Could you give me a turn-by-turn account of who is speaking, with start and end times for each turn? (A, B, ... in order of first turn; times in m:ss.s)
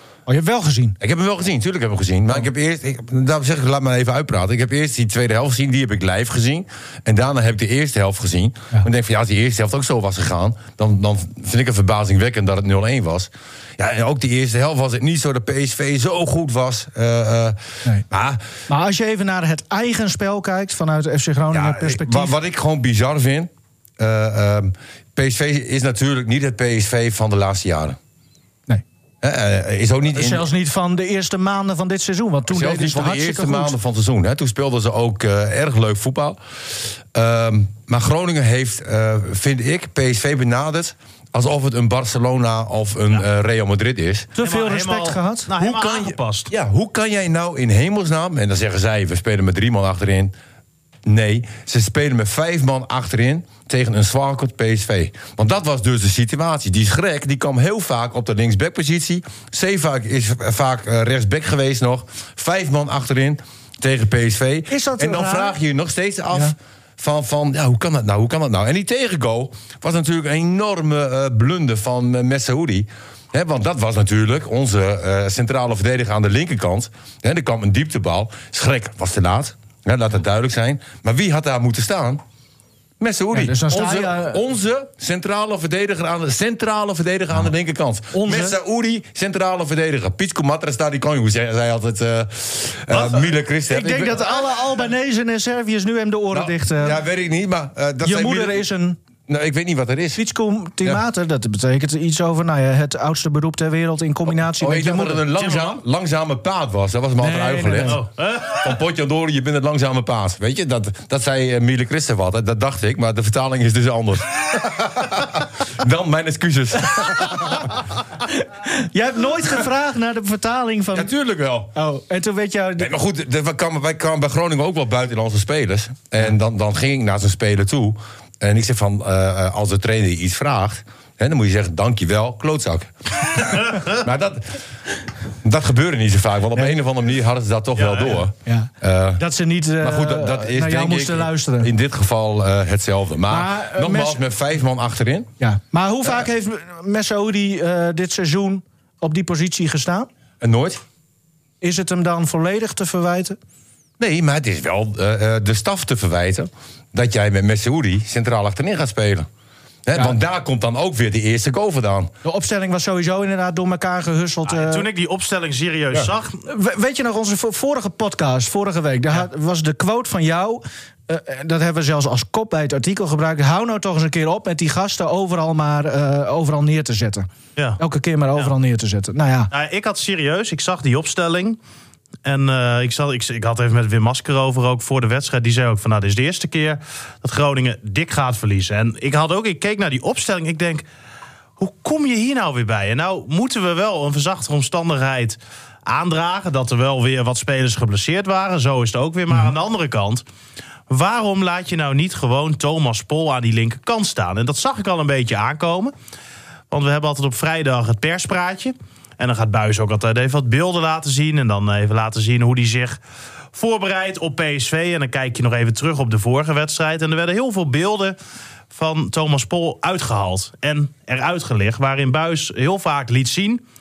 0:00.3-0:01.0 A
0:01.0-0:17.6 B
0:18.1-0:18.5 B
0:18.7-0:22.3 A
0:21.5-0:28.0 B
0:29.2-0:30.4 B
0:30.1-0:33.8 A
0:32.5-0:44.3 B
0:44.4-0:45.5 A
0:44.4-0:46.5 C
0:45.6-0:50.3 B
0:51.0-1:22.2 B
1:04.7-1:05.6 A
1:23.0-1:34.4 B
1:23.3-1:24.4 A
1:28.1-1:28.6 A
1:32.9-1:37.0 A
1:36.3-1:38.6 B
1:38.0-1:39.0 A
1:39.3-1:40.2 B
1:40.2-1:45.2 A
1:44.5-1:57.7 B
1:45.4-1:45.8 C
1:47.2-1:48.0 A
1:47.8-1:48.7 C
1:58.2-2:01.1 A
2:00.9-2:01.7 B
2:01.7-2:02.9 A
2:02.8-2:14.6 B
2:15.4-2:19.2 B
2:17.8-2:18.2 C
2:18.4-2:21.7 A
2:19.8-2:25.3 B
2:23.3-2:24.2 A
2:25.4-2:30.1 A
2:30.4-2:30.8 B
2:31.6-2:33.4 A
2:34.0-2:39.3 B
2:39.8-2:42.1 B
2:42.2-2:44.8 A
2:44.4-2:46.4 C
2:46.4-2:57.3 A
2:57.8-2:59.5 A
2:59.5-3:01.6 C
3:02.2-3:10.8 C
3:11.6-3:20.2 C
3:20.9-3:25.9 C
3:26.7-3:33.0 C
3:33.5-3:38.2 C
3:38.7-3:43.6 C